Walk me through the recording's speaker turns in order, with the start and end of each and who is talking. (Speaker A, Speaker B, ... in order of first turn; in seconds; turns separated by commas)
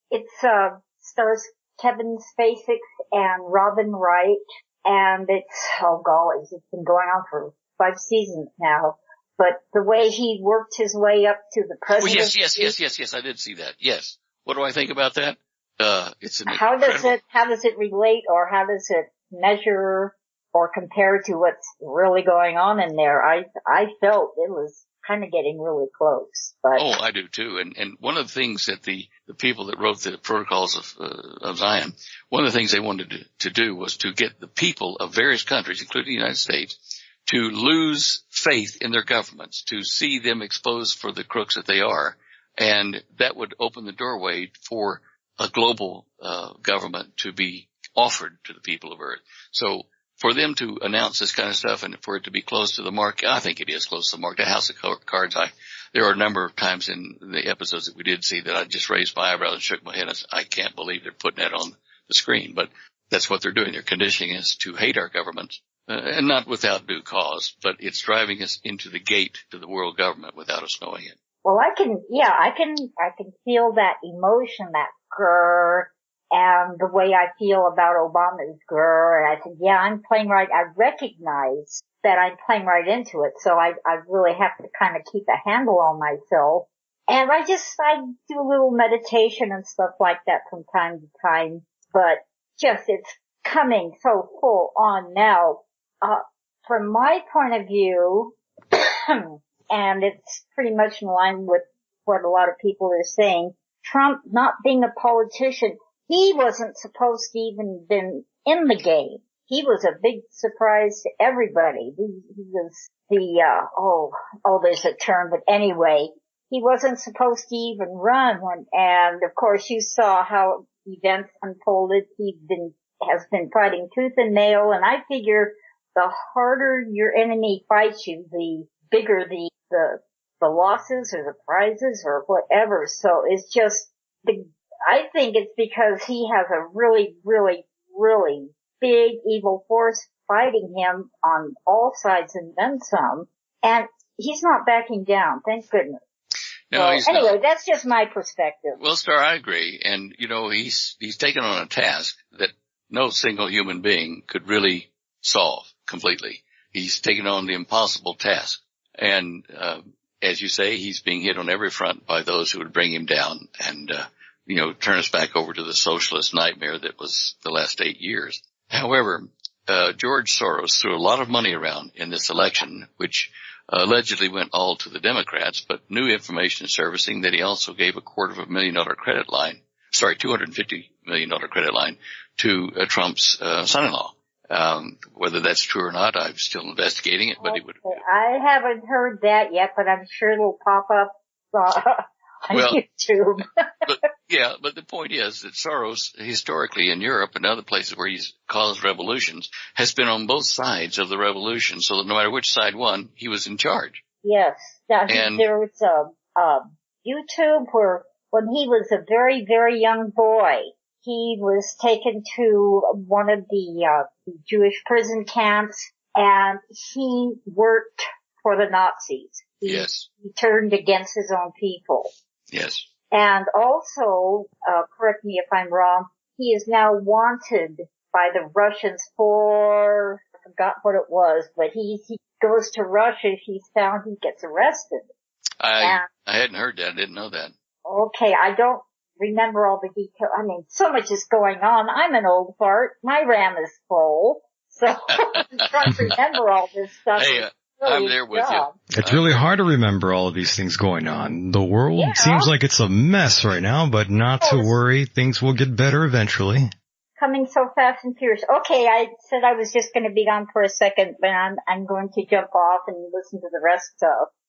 Speaker A: 0.1-12.7, Speaker B: 11.9-17.1, Speaker A: 16.5-26.9, Speaker B: 26.8-71.2, Speaker A: 71.4-146.0, Speaker B: 146.7-147.4, Speaker A: 146.7-148.8, Speaker B: 148.8-188.0, Speaker A: 187.4-193.4, Speaker B: 192.5-192.8, Speaker B: 193.8-204.0, Speaker A: 204.2-222.1, Speaker B: 205.1-205.4, Speaker B: 219.6-220.0, Speaker B: 222.5-222.8, Speaker A: 223.1-235.0, Speaker B: 235.6-237.5, Speaker A: 235.8-236.1, Speaker A: 237.8-248.8, Speaker B: 245.1-246.2, Speaker B: 247.1-249.4, Speaker C: 248.9-256.7, Speaker A: 252.0-252.5, Speaker A: 254.4-254.8, Speaker A: 257.2-264.3